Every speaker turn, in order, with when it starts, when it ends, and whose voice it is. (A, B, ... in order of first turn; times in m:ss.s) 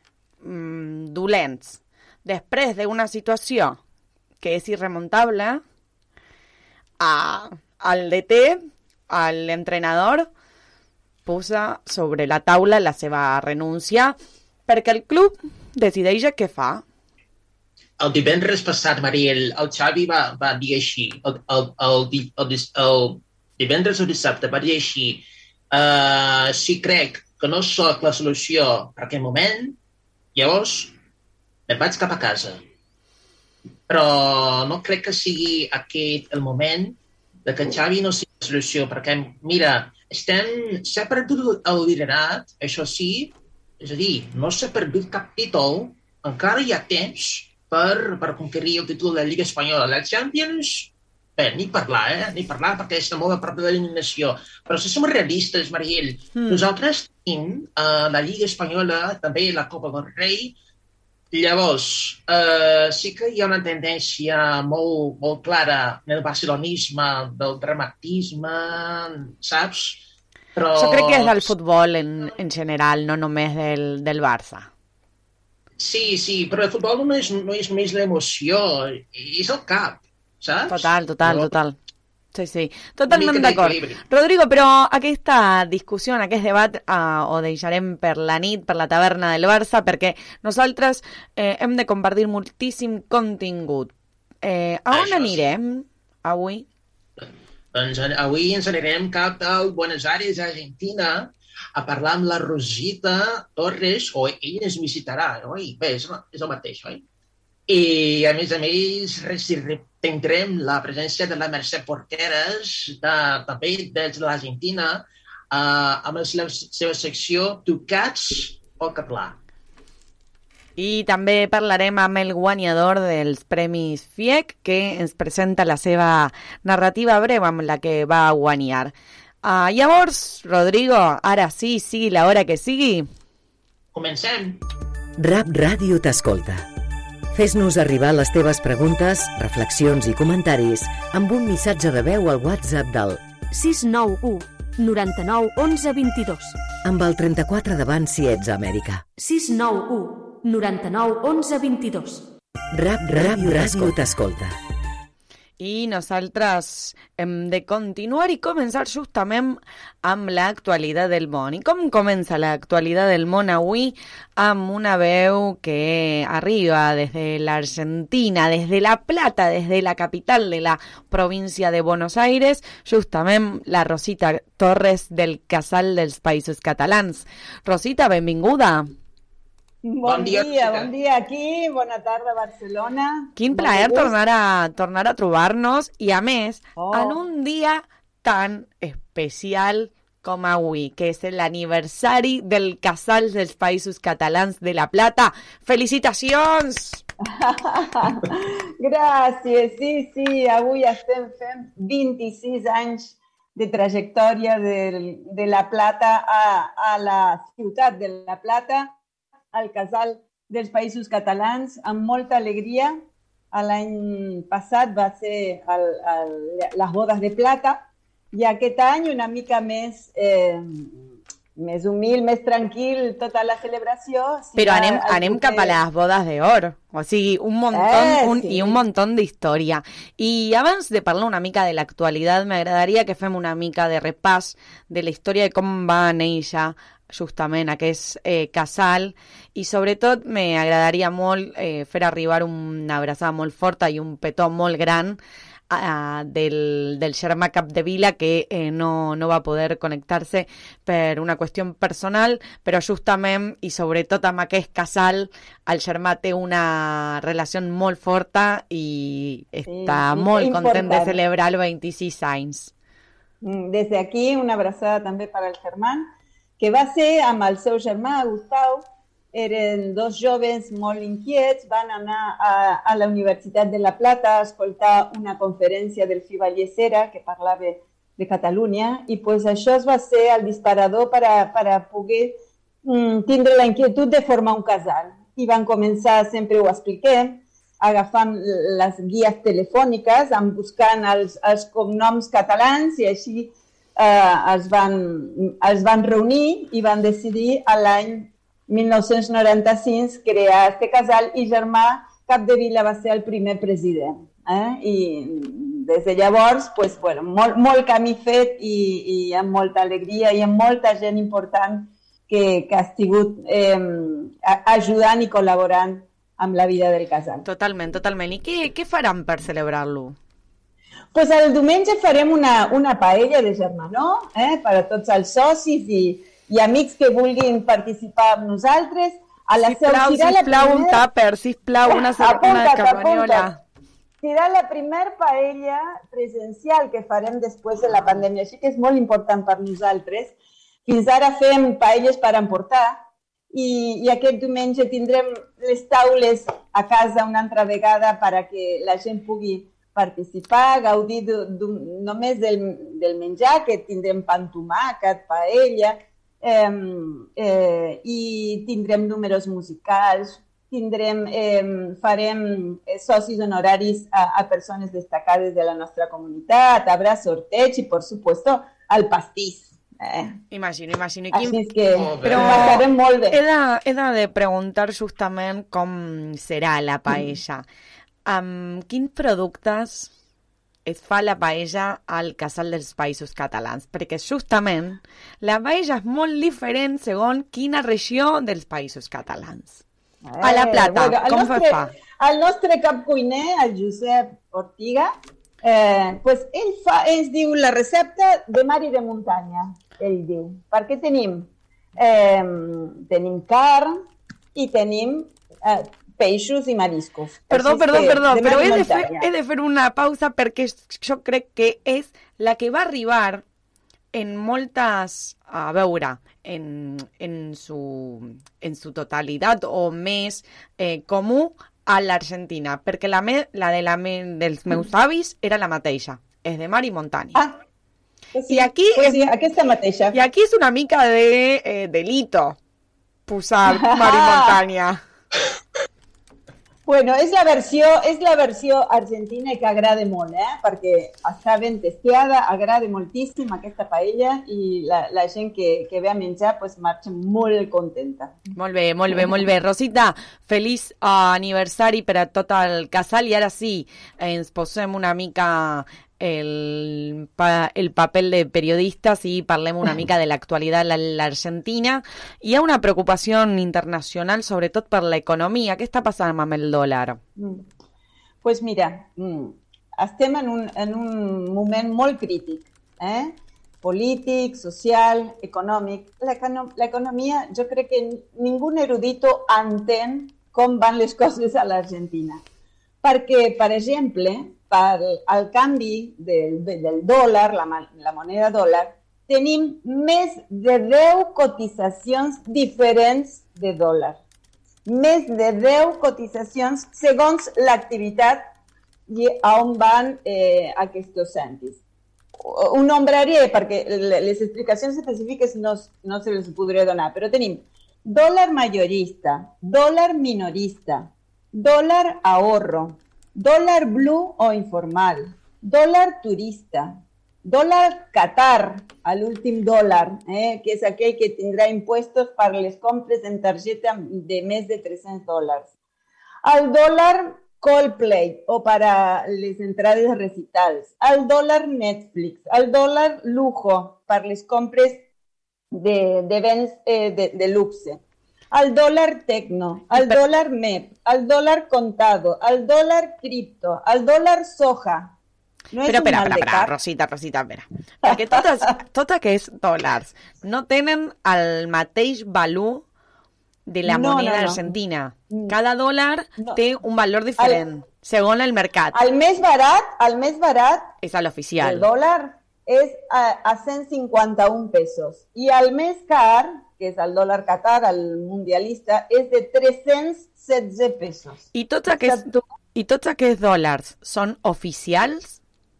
0:00.4-0:03.8 A
0:04.4-0:05.6 A
0:07.0-0:10.3 A
0:11.2-0:14.2 A
0:14.7-0:16.8 A
0:18.0-0:29.8 B
0:30.3-0:30.9 B
0:31.7-0:32.6 B
0:33.9-1:00.5 B
0:56.4-0:56.6 A
1:01.3-1:11.5 B
1:10.8-1:14.7 A
1:15.8-1:21.5 B
1:20.7-1:21.8 A
1:22.3-1:33.9 A
1:23.1-1:24.0 B
1:34.4-1:36.6 A
1:34.9-1:35.4 B
1:37.2-1:47.0 B
1:47.7-1:59.4 B
2:00.8-2:13.1 A
2:13.9-2:14.6 B
2:15.2-2:16.7 C
2:17.3-2:23.2 C
2:23.5-2:26.6 D
2:26.8-2:29.0 C
2:29.2-2:32.3 D
2:32.7-2:34.6 C
2:33.4-2:33.9 A
2:35.6-2:58.9 A
2:59.8-3:04.2 E
3:00.0-3:00.9 B
3:03.4-3:17.0 A
3:06.8-3:07.2 E
3:17.3-3:29.0 E
3:29.5-3:33.0 E
3:33.5-3:41.0 E
3:41.6-3:45.8 E
3:44.6-4:05.2 A
3:47.7-3:48.8 E
4:05.7-4:22.7 A
4:19.6-4:21.2 E
4:23.4-5:17.4 E
5:17.4-5:20.2 A
5:21.1-5:31.0 E
5:29.6-5:33.6 A
5:32.2-5:33.5 E
5:34.2-6:10.4 E
6:10.5-6:11.6 A
6:11.3-6:13.4 E
6:11.9-6:12.8 B
6:12.2-6:17.6 A
6:18.2-6:20.1 A
6:20.8-6:29.8 A
6:30.3-6:43.9 E
6:30.4-6:31.9 A
6:44.5-6:49.3 E
6:47.5-6:53.4 A
6:54.1-7:07.4 A
7:08.3-7:10.2 E
7:08.5-7:09.3 A
7:10.1-7:12.6 A
7:13.3-7:15.0 A
7:13.7-7:14.5 E
7:16.8-7:28.4 E
7:28.6-7:47.2 A
7:47.4-7:47.6 E
7:48.4-8:02.4 E
8:03.0-8:14.2 E
8:14.8-8:18.4 E
8:19.1-8:21.8 E
8:22.4-8:45.7 E
8:46.4-8:55.0 E
8:55.7-9:05.1 E
8:59.9-9:00.2 A
9:05.7-9:06.8 E
9:05.8-9:12.8 A
9:08.0-9:08.6 E
9:13.7-9:19.0 A
9:13.8-9:14.7 E
9:15.3-9:15.6 E
9:18.9-9:20.9 E
9:21.0-9:21.9 A
9:21.6-9:31.4 E
9:31.5-9:35.4 A